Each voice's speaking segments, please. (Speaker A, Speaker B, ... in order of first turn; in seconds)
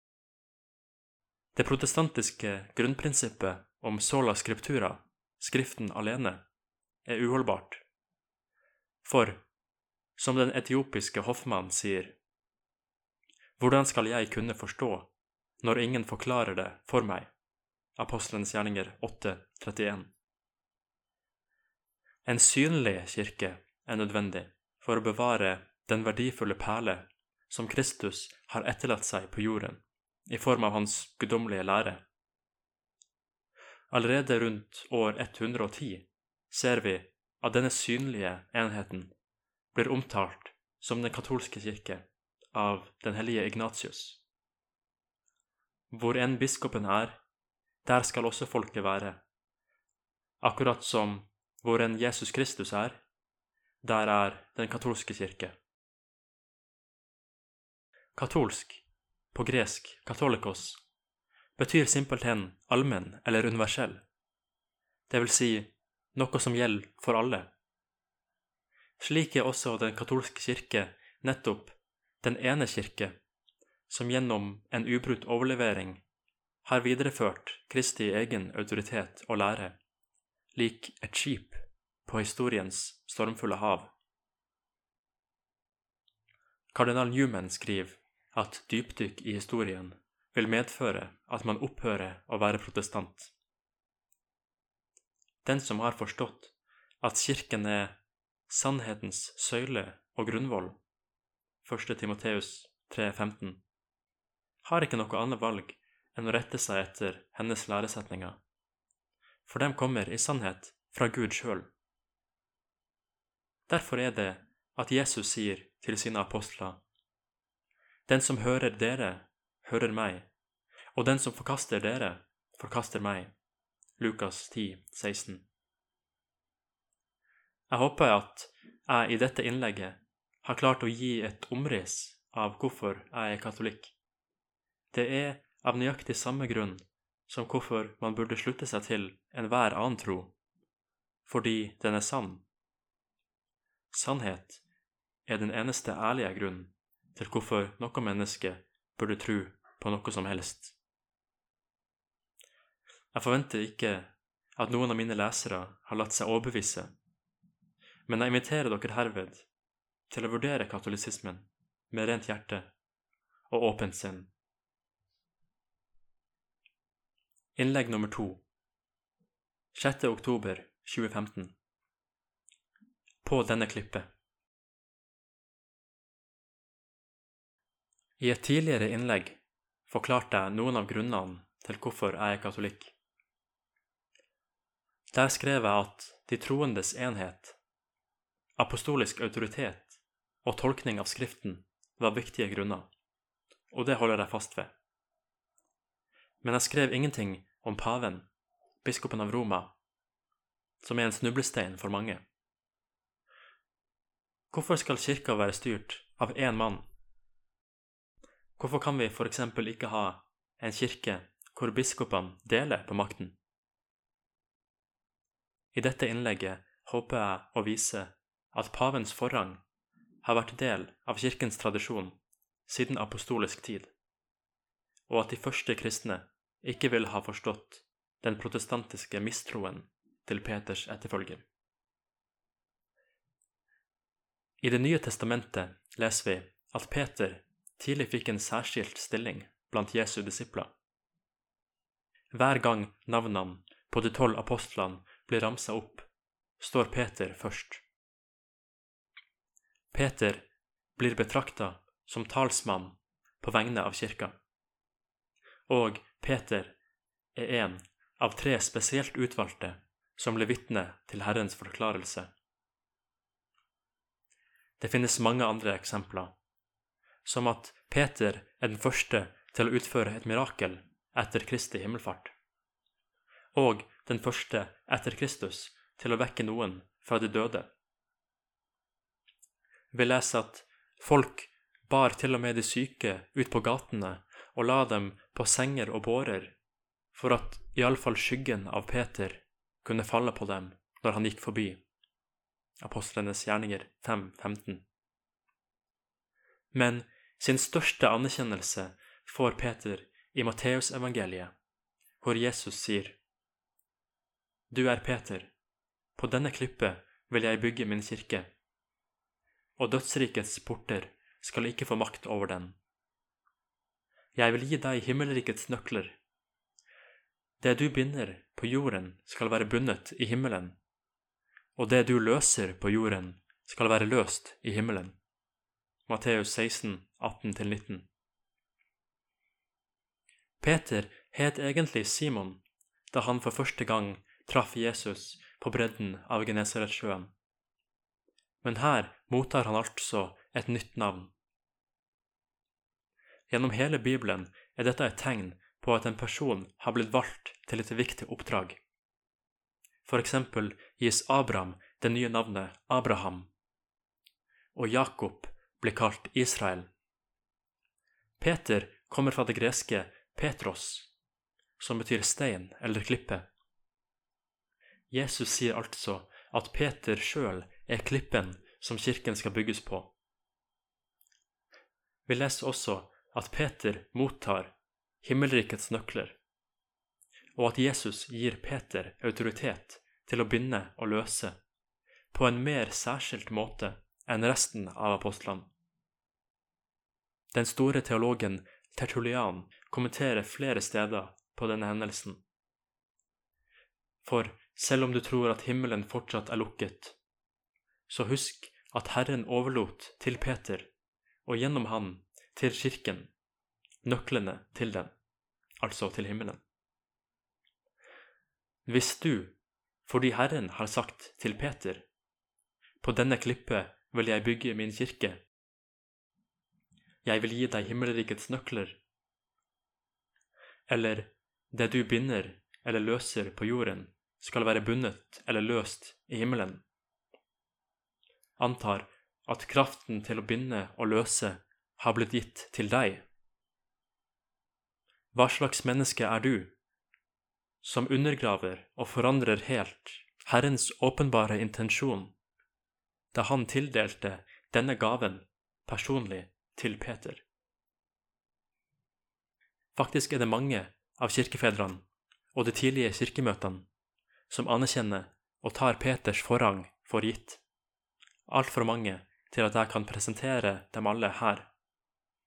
Speaker A: 1.5-6.4, 7.0-7.8, 9.0-9.4, 10.2-12.2, 13.6-17.3, 18.0-20.1, 22.2-32.0, 33.9-39.1, 39.7-44.2, 45.9-47.2, 47.8-49.2, 50.4-53.0, 53.8-55.5, 58.1-60.8, 61.6-64.0, 65.1-67.5, 69.0-73.2, 73.9-76.0, 76.6-79.8, 80.5-83.9, 86.7-93.3, 95.4-100.8, 101.6-103.6, 104.6-108.4, 109.5-111.7, 113.7-116.8, 118.1-120.3, 120.9-123.3, 124.0-125.4, 127.7-133.9, 134.9-140.3, 141.2-142.4, 143.9-144.6, 145.2-150.8, 153.1-156.9, 158.1-159.5, 160.1-162.7, 163.5-164.3, 167.6-168.4, 169.7-171.5, 173.2-174.1, 178.2-182.9, 185.1-187.6, 188.6-192.9, 193.7-194.7, 196.4-198.3, 198.8-199.7, 200.8-202.2, 204.5-206.9, 208.6-213.3, 215.7-219.6, 220.2-223.9, 225.1-231.4, 234.6-240.7, 242.3-247.8, 249.9-254.4, 255.7-256.8, 257.3-262.3, 264.8-266.3, 267.2-272.3, 273.5-277.7, 279.9-286.6, 287.1-291.8, 292.8-294.8, 296.7-301.5, 302.2-303.2, 304.7-305.5, 306.1-308.5, 309.8-312.8, 314.3-316.2, 317.6-320.8, 321.8-325.2, 326.1-328.1, 330.6-337.3, 338.6-341.3, 343.5-348.8, 350.0-353.5, 354.7-356.9, 358.4-361.1, 361.8-363.5, 365.1-370.1, 372.3-376.4, 377.6-381.6, 382.3-385.7, 387.5-392.4, 394.2-397.2, 398.1-400.9, 401.4-403.3, 404.0-405.1, 405.8-406.6, 408.8-412.1, 413.0-415.4, 417.2-419.0, 420.9-426.8, 428.6-433.2, 435.3-436.7, 437.8-442.3, 443.3-447.4, 449.9-453.9, 454.5-457.6, 458.5-461.7